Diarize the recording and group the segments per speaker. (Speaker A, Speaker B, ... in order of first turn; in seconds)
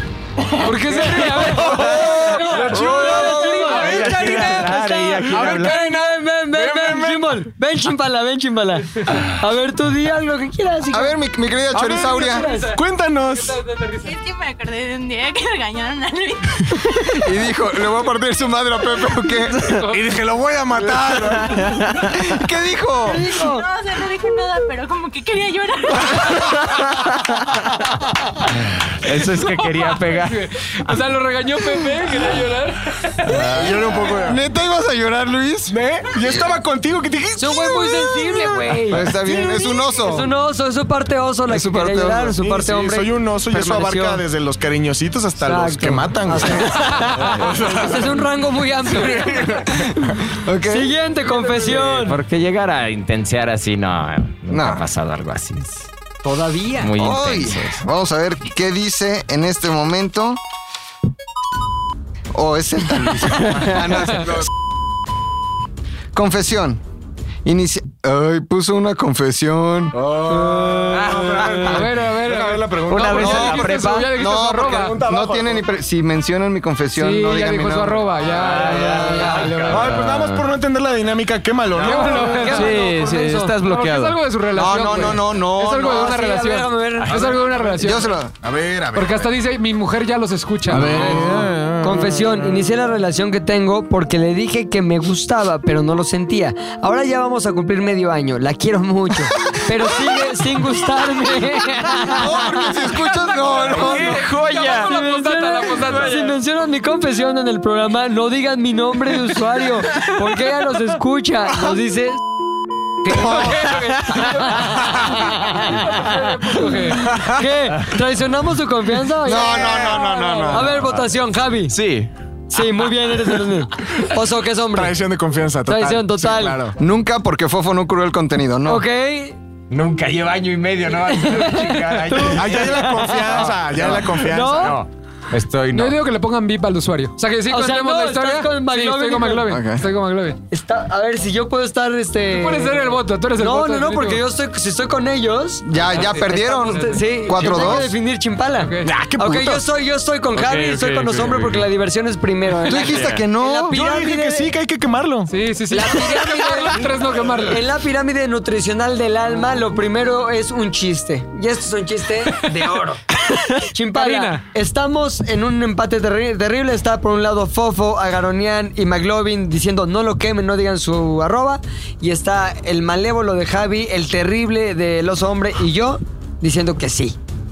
Speaker A: 0.6-4.7, 12.2-14.1, 19.6-20.0, 29.6-33.4, 71.6-75.0, 77.0-80.0, 81.8-88.1, 88.9-91.5, 103.4-106.4, 113.0-117.1, 135.7-140.4, 142.3-144.2, 145.8-147.8, 148.6-148.9, 155.3-157.6, 163.9-164.4
Speaker B: 0.7-7.5, 11.7-13.6, 19.9-22.2, 33.2-34.4, 35.7-39.6, 42.3-48.3, 48.9-49.9, 51.3-52.0, 69.9-75.6, 78.3-83.0, 87.1-87.9, 88.4-89.4, 90.7-92.5, 117.1-117.4, 119.4-120.6, 124.7-126.8, 132.3-134.8, 148.8-149.7, 153.7-155.3
Speaker C: 0.9-11.2, 11.9-12.8, 23.1-23.7, 37.4-44.2, 45.4-50.1, 50.7-52.2, 56.2-56.9, 70.3-71.1, 78.8-79.5, 81.9-83.4, 85.7-87.3, 91.0-103.1, 104.7-112.2, 113.1-121.7, 122.5-125.0, 125.7-126.6, 128.7-129.4, 131.1-133.5, 134.2-134.8, 137.5-139.5, 140.5-154.5, 155.7-177.2
Speaker D: 3.1-3.7, 10.9-12.5, 17.1-19.9, 20.9-23.3, 33.3-35.8, 38.9-40.3, 41.5-42.4, 50.3-50.9, 54.5-54.8, 57.0-60.4, 62.3-64.5, 66.1-66.8, 67.5-70.0, 73.1-78.3, 84.5-86.2, 87.8-88.3, 101.9-104.2, 113.1-113.8, 119.2-120.9, 126.8-128.8, 139.5-139.9, 145.7-147.9, 152.7-153.8
Speaker E: 4.1-5.8, 28.8-31.0, 51.8-55.9, 56.8-57.8, 63.2-63.9, 70.9-71.9, 72.9-74.2, 78.2-80.0, 87.1-87.4, 129.7-136.0
Speaker F: 14.0-16.9, 23.4-26.6
Speaker G: 79.7-80.4, 82.4-84.2, 103.6-105.0, 121.7-122.1, 150.3-151.7, 152.8-153.2